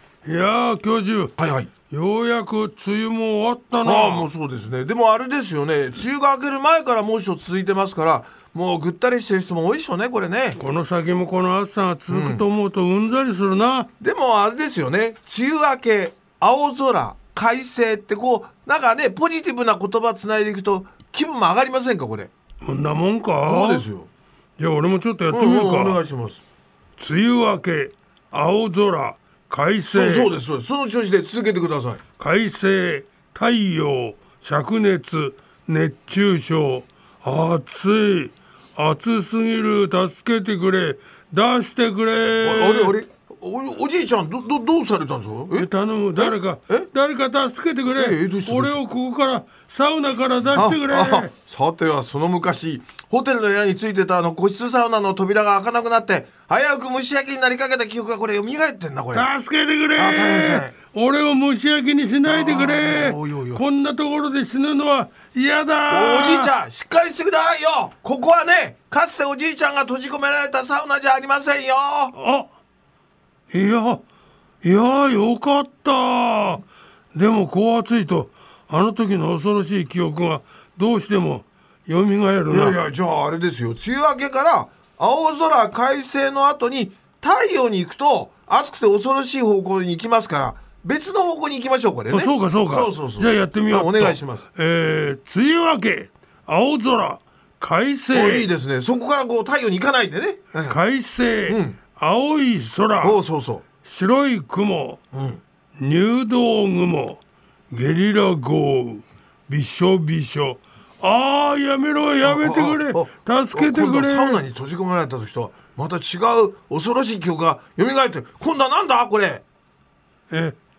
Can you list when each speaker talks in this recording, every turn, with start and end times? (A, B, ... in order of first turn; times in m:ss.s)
0:00.2-0:01.4 A
0:01.4-0:01.7 B
0:01.9-0:04.3 A
0:03.8-0:10.6 B
0:10.6-0:13.9 A
0:12.1-0:12.4 B
0:14.0-0:22.3 B
0:22.6-0:23.9 A
0:23.5-0:24.1 B
0:24.6-0:26.0 A
0:25.3-0:26.4 B
0:27.0-0:30.3 A
0:29.9-0:32.0 B
0:32.2-0:43.0 A
0:42.4-0:46.9 B
0:45.6-0:51.3 A
0:47.9-0:48.8 B
0:50.6-0:59.3 B
0:59.1-1:06.5 A
1:00.0-1:00.7 B
1:02.3-1:03.6 B
1:05.9-1:12.2 B
1:12.1-1:12.5 A
1:13.5-1:14.0 A
1:14.6-1:22.8 A
1:22.5-1:34.4 B
1:32.1-1:38.5 A
1:38.1-1:40.8 B
1:40.7-1:43.2 A
1:41.5-1:41.8 B
1:43.0-1:43.6 B
1:43.8-1:45.0 A
1:45.1-1:45.4 B
1:45.8-1:47.2 A
1:47.7-1:54.4 A
1:52.2-1:59.4 B
2:00.3-2:00.6 A